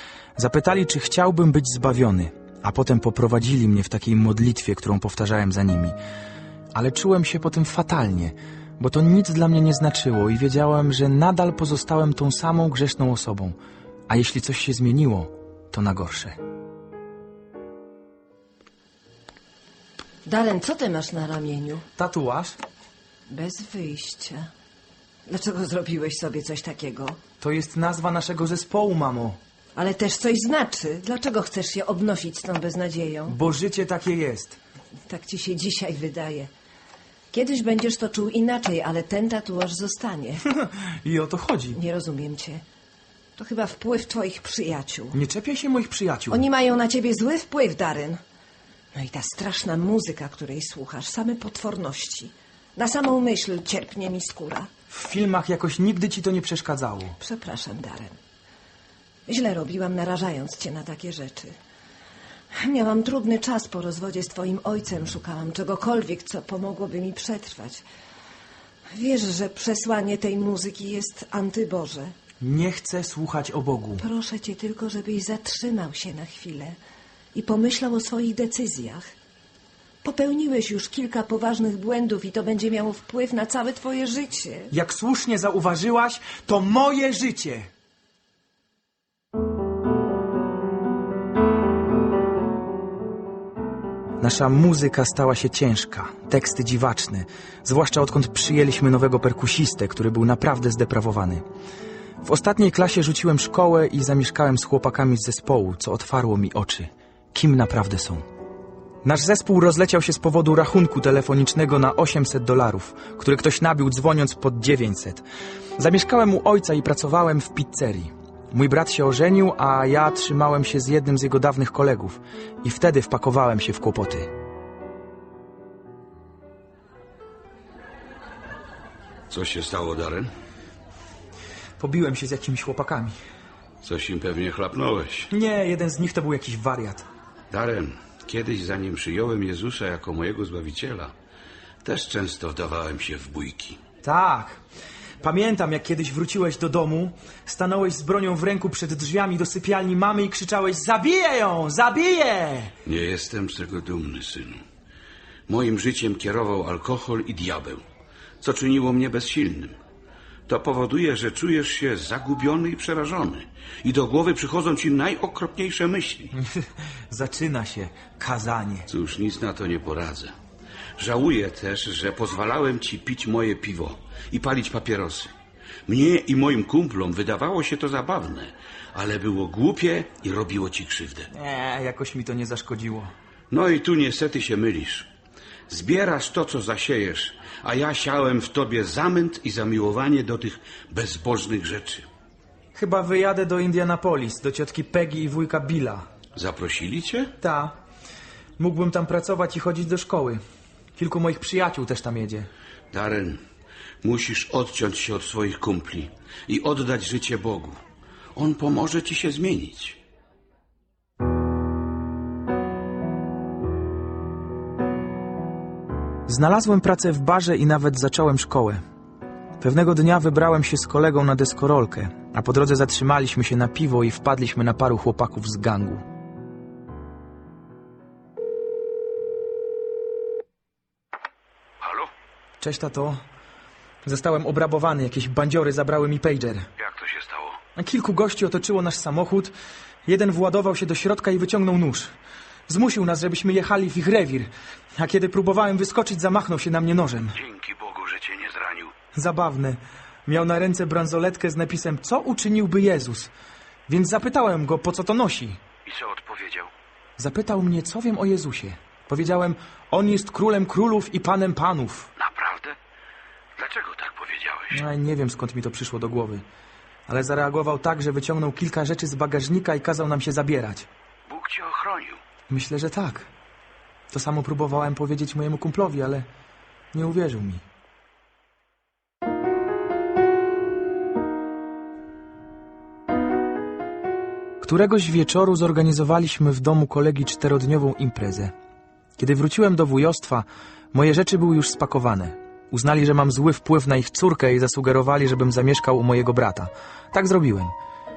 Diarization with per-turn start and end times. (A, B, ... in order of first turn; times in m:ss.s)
0:00.4-0:06.0 A
0:06.7-0:13.6 A
0:14.1-0:16.4 A
0:20.2-0:21.8 B
0:22.0-0:22.6 A
0:23.3-0:24.5 B
0:25.3-0:27.2 B
0:27.4-0:29.4 A
0:29.8-0:33.4 B
0:33.3-0:34.6 A
0:35.1-0:36.5 B
0:37.3-0:40.4 B
0:40.5-0:41.8 A
0:41.7-0:42.6 B
0:43.4-0:45.2 B
0:45.1-0:46.4 A
0:46.3-0:48.2 B
0:48.9-0:54.7 B
0:54.9-0:57.2 A
0:57.2-0:58.2 B
0:59.3-1:01.5 B
1:02.5-1:07.8 B
1:08.9-1:12.1 B
1:12.4-1:14.0 A
1:14.0-1:16.8 B
1:17.3-1:19.1 B
1:20.0-1:24.7 B
1:24.7-1:27.7 A
1:34.2-1:41.4 A
1:42.2-1:48.2 A
1:49.0-1:55.2 A
1:55.8-2:04.3 A
2:09.3-2:10.3 C
2:11.8-2:13.2 A
2:13.8-2:15.3 C
2:15.3-2:17.1 A
2:17.5-2:21.1 C
2:21.8-2:23.8 C
2:24.0-2:24.6 A
2:25.2-2:32.7 A
2:32.8-2:34.6 C
2:35.5-2:37.8 C
2:38.4-2:39.8 C
2:40.5-2:46.3 C
2:46.3-2:48.9 A
2:48.9-2:50.3 C
2:51.0-2:55.3 C
2:55.9-3:01.3 C
3:01.3-3:03.1 A
3:03.5-3:05.1 C
3:05.7-3:12.0 C
3:12.7-3:16.1 A
3:16.3-3:17.3 C
3:17.4-3:17.8 A
3:18.6-3:20.4 A
3:21.0-3:22.5 A
3:22.9-3:23.4 C
3:24.0-3:27.8 C
3:28.4-3:30.0 C
3:36.3-3:38.8 A
3:39.6-3:46.0 A
3:51.8-3:52.1 C
3:52.6-3:53.2 A
3:54.0-3:56.7 A
3:56.8-3:57.6 C
3:57.8-3:59.5 A
4:00.0-4:02.1 A
4:02.7-4:07.4 A
4:07.3-4:08.9 C
4:09.1-4:13.3 A
4:13.9-4:15.6 A
4:15.8-4:16.7 C
4:17.2-4:22.1 A
4:22.2-4:22.8 C
4:23.6-4:24.8 C
4:24.7-4:26.4 A
4:27.1-4:30.9 A
4:31.3-4:32.2 C
4:32.5-4:33.3 A
4:34.1-4:36.3 A
4:36.9-4:37.6 A
4:44.6-4:48.5 A
4:49.2-4:57.7 A